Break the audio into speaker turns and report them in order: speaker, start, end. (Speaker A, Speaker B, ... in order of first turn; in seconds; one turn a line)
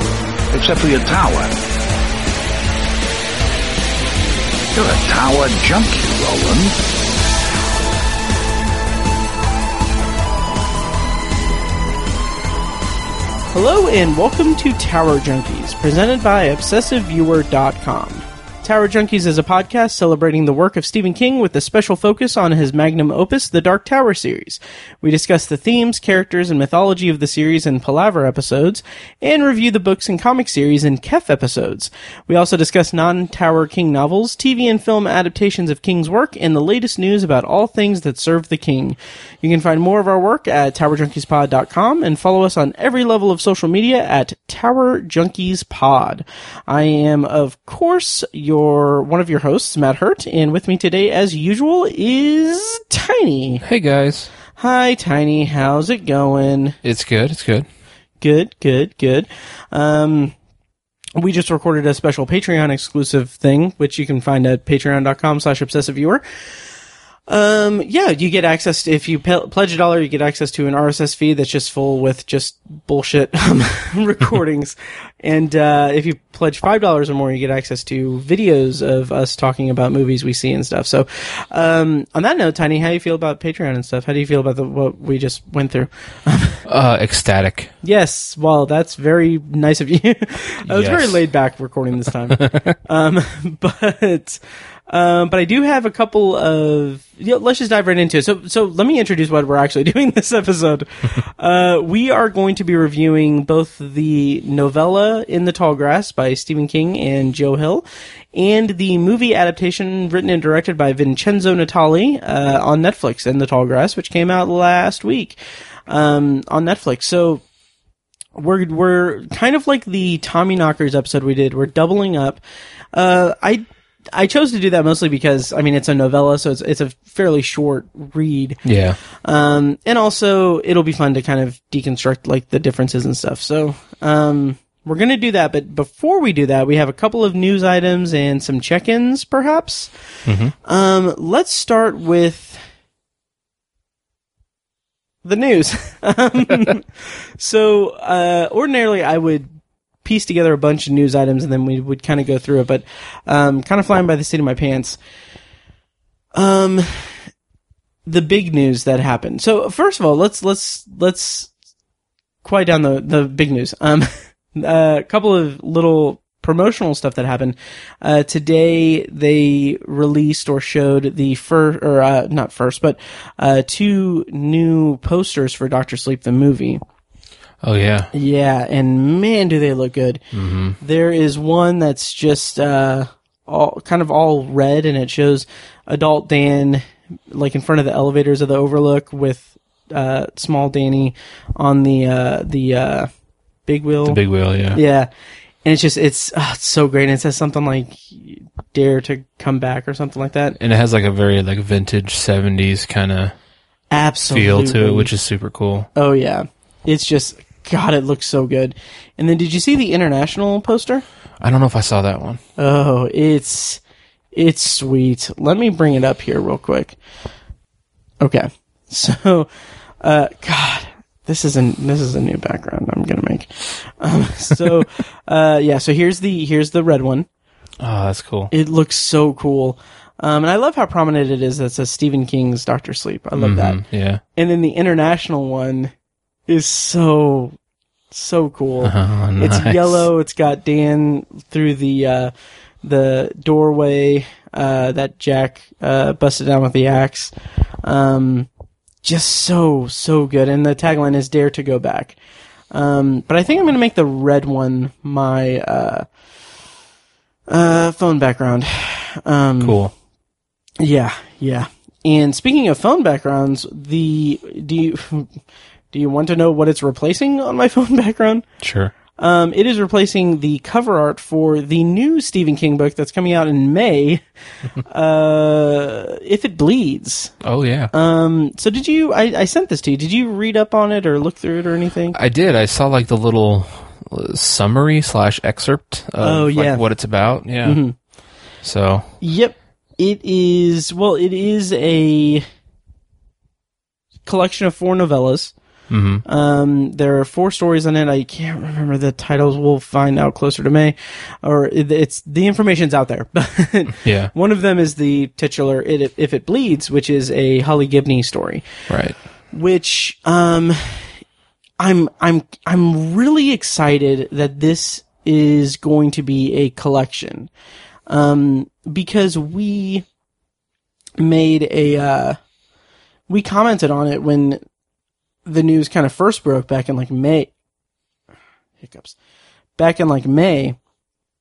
Speaker A: 0.5-1.5
Speaker A: 4.7-6.8
Speaker B: 13.5-53.6
Speaker C: 53.6-54.3
Speaker B: 54.5-56.8
Speaker C: 56.8-57.7
Speaker B: 58.2-60.3
Speaker B: 61.1-66.4
Speaker B: 67.3-86.6
Speaker C: 86.7-87.7
Speaker B: 87.8-117.4
Speaker C: 90.7-91.2
Speaker C: 92.4-92.7
Speaker B: 118.3-122.4
Speaker B: 122.9-128.6
Speaker C: 128.6-129.0
Speaker B: 129.2-139.9
Speaker C: 140.2-140.5
Speaker B: 140.6-142.6
Speaker B: 145.2-149.5
Speaker B: 150.0-155.0
Speaker B: 156.3-157.3
Speaker B: 158.1-161.5
Speaker B: 162.4-176.8
Speaker C: 177.6-178.1
Speaker B: 178.1-180.2
Speaker C: 180.3-180.8
Speaker B: 180.8-193.1
Speaker B: 193.7-194.2
Speaker C: 194.0-194.8
Speaker B: 194.7-195.1
Speaker B: 195.6-200.6
Speaker C: 200.6-203.3
Speaker B: 203.9-205.1
Speaker C: 204.3-205.9
Speaker B: 205.9-211.0
Speaker C: 211.4-212.4
Speaker B: 212.6-213.8
Speaker B: 214.3-217.0
Speaker B: 218.2-219.5
Speaker B: 220.0-227.3
Speaker C: 227.8-228.5
Speaker B: 228.5-233.8
Speaker C: 233.3-234.2
Speaker B: 234.3-235.9
Speaker B: 236.5-237.6
Speaker B: 238.1-247.3
Speaker C: 238.8-240.1
Speaker B: 247.8-248.5
Speaker B: 249.0-252.2
Speaker B: 252.7-256.1
Speaker B: 257.5-259.8
Speaker C: 259.6-259.9
Speaker B: 260.8-265.3
Speaker B: 265.9-268.4
Speaker C: 268.6-268.9
Speaker B: 269.2-274.2
Speaker B: 274.9-277.3
Speaker C: 277.4-277.9
Speaker B: 277.9-282.2
Speaker C: 282.1-287.8
Speaker B: 286.2-286.8
Speaker B: 287.6-287.9
Speaker C: 288.6-289.1
Speaker B: 289.2-292.4
Speaker B: 294.2-295.5
Speaker C: 295.9-296.2
Speaker B: 296.2-308.9
Speaker C: 304.0-304.3
Speaker C: 308.9-309.2
Speaker B: 309.5-311.2
Speaker B: 311.8-317.5
Speaker B: 318.1-320.1
Speaker B: 321.2-322.4
Speaker B: 323.3-324.6
Speaker B: 325.4-327.5
Speaker B: 328.8-329.1
Speaker B: 329.8-330.8